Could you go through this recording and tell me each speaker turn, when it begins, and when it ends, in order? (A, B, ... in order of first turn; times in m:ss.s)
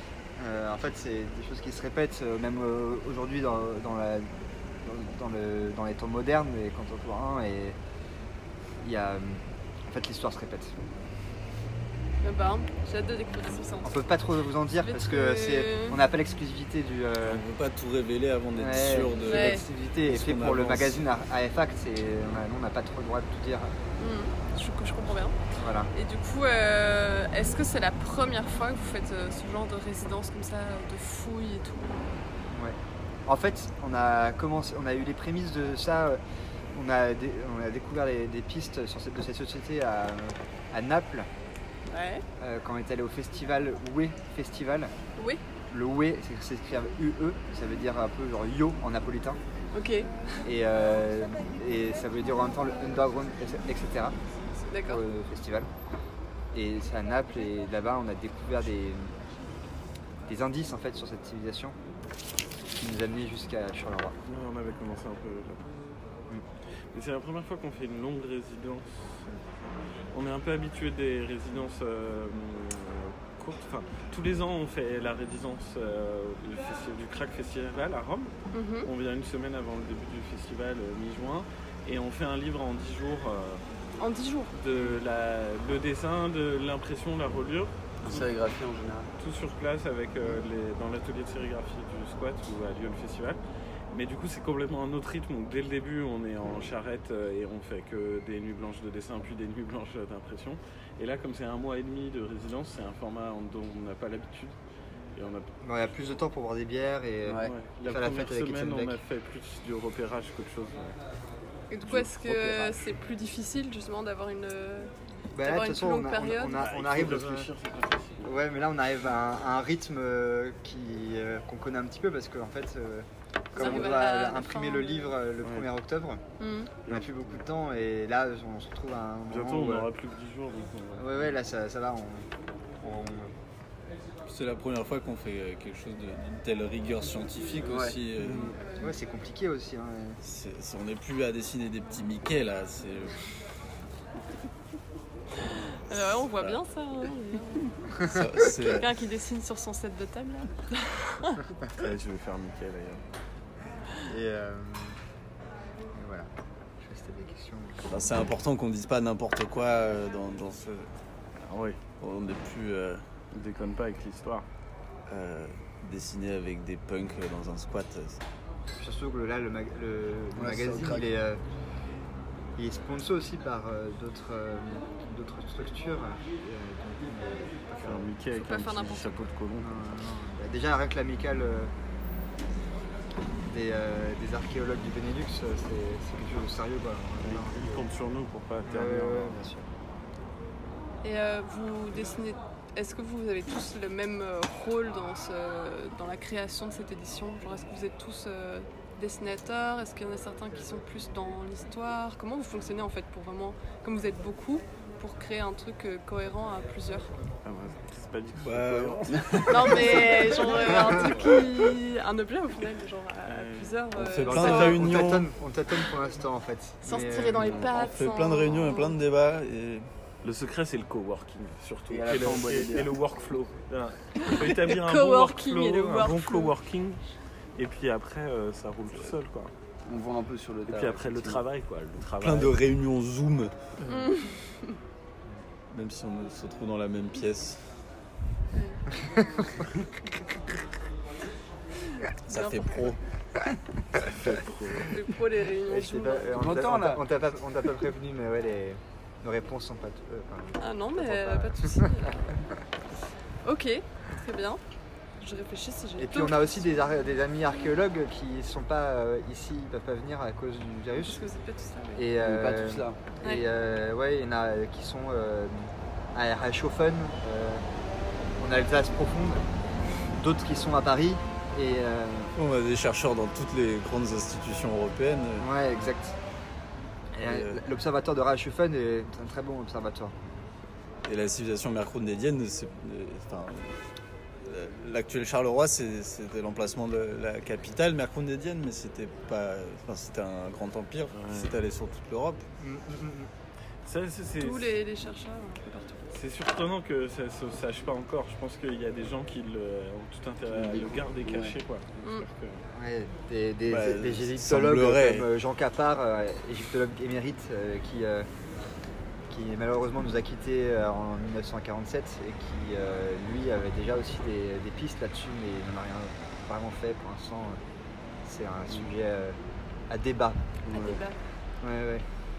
0:00.4-0:04.3 A
0:04.8-0:07.8 A
0:08.8-0:10.7 A
0:12.2-0:14.0 B
0:13.8-0:17.4 A
0:14.8-0:16.0 B
0:17.2-0:21.0 C
0:18.6-0:23.7 A
0:19.2-0:19.6 B
0:24.0-0:25.4 B
0:25.6-0:25.9 A
0:25.9-0:32.1 B
0:32.5-0:36.2 A
0:36.7-0:41.3 A
0:41.9-0:42.2 B
0:42.4-0:44.9 A
0:45.7-0:49.4 A
0:49.7-0:50.1 B
0:50.4-0:54.2 A
0:54.6-0:55.0 B
0:54.8-0:55.7 A
0:56.5-0:59.1 A
1:00.3-1:01.8 A
1:02.8-1:04.2 A
1:04.2-1:05.7 D
1:06.9-1:09.3 D
1:10.1-1:23.6 D
1:18.5-1:18.9 B
1:24.0-1:24.5 B
1:24.5-1:28.3 D
1:28.0-1:29.1 E
1:29.2-1:33.4 D
1:33.9-1:44.6 D
1:45.1-1:45.5 D
1:45.6-1:49.0 A
1:47.2-1:47.5 E
1:47.4-1:51.0 D
1:51.7-1:56.6 B
1:51.9-1:52.8 E
1:55.3-1:57.5 A
1:56.6-1:58.3 D
1:58.2-2:06.2 A
2:03.5-2:05.1 B
2:03.6-2:03.9 D
2:06.4-2:06.7 B
2:06.9-2:07.1 D
2:06.9-2:09.9 A
2:09.3-2:11.3 D
2:11.0-2:12.3 A
2:12.8-2:13.3 A
2:14.2-2:18.6 C
2:17.6-2:18.0 E
2:18.2-2:18.5 D
2:18.8-2:20.2 A
2:20.2-2:23.2 C
2:25.4-2:31.4 B
2:25.9-2:26.6 C
2:28.0-2:28.9 C
2:31.8-2:33.0 D
2:34.0-2:35.0 A
2:35.9-2:38.0 A
2:37.8-2:40.9 C
2:41.4-2:41.8 D
2:42.0-2:43.1 C
2:43.3-2:44.4 D
2:45.1-2:48.2 C
2:48.8-2:51.4 A
2:50.3-2:51.0 E
2:52.6-2:58.1 A
2:57.8-2:59.7 D
2:58.3-2:59.3 B
2:59.6-3:01.7 A
3:03.4-3:07.9 A
3:07.2-3:09.4 D
3:08.6-3:09.7 A
3:11.0-3:27.1 B
3:27.4-3:29.4 D
3:28.4-3:30.3 C
3:29.1-3:29.8 E
3:29.4-3:34.9 B
3:30.5-3:31.2 A
3:33.3-3:33.8 D
3:33.9-3:35.3 C
3:34.2-3:37.7 A
3:36.8-3:39.0 B
3:37.6-3:39.9 C
3:40.2-3:47.0 D
3:41.9-3:42.9 E
3:44.1-3:46.5 B
3:47.6-3:49.5 D
3:49.8-3:51.4 E
3:50.7-3:52.6 D
3:52.2-3:53.5 C
3:53.9-3:54.7 B
3:55.7-3:57.6 C
3:58.5-3:58.8 B
3:59.0-3:59.6 A
4:02.3-4:03.0 C
4:02.3-4:02.8 B
4:04.0-4:04.9 D
4:04.8-4:06.4 B
4:05.6-4:11.9 A
4:06.3-4:07.0 E
4:10.6-4:12.4 B
4:13.4-4:14.6 B
4:15.2-4:16.5 B
4:16.0-4:21.2 A
4:21.0-4:22.1 B
4:21.9-4:27.6 A
4:22.2-4:23.0 E
4:28.4-4:29.4 A
4:30.1-4:32.3 A
4:32.3-4:35.5 C
4:35.4-4:36.2 A
4:37.2-4:40.2 A
4:37.2-4:37.6 C
4:41.0-4:43.8 C
4:44.4-4:52.4 C
4:51.1-4:51.5 D
4:52.6-4:53.3 A
4:53.8-4:54.8 D
4:54.4-4:56.1 B
4:56.1-5:02.6 D
5:00.5-5:01.6 E
5:02.7-5:08.3 A
5:03.7-5:05.3 C
5:09.3-5:17.6 A
5:18.2-5:19.4 A
5:19.9-5:20.5 A
5:20.7-5:21.2 B
5:20.7-5:21.0 E
5:21.6-5:22.0 A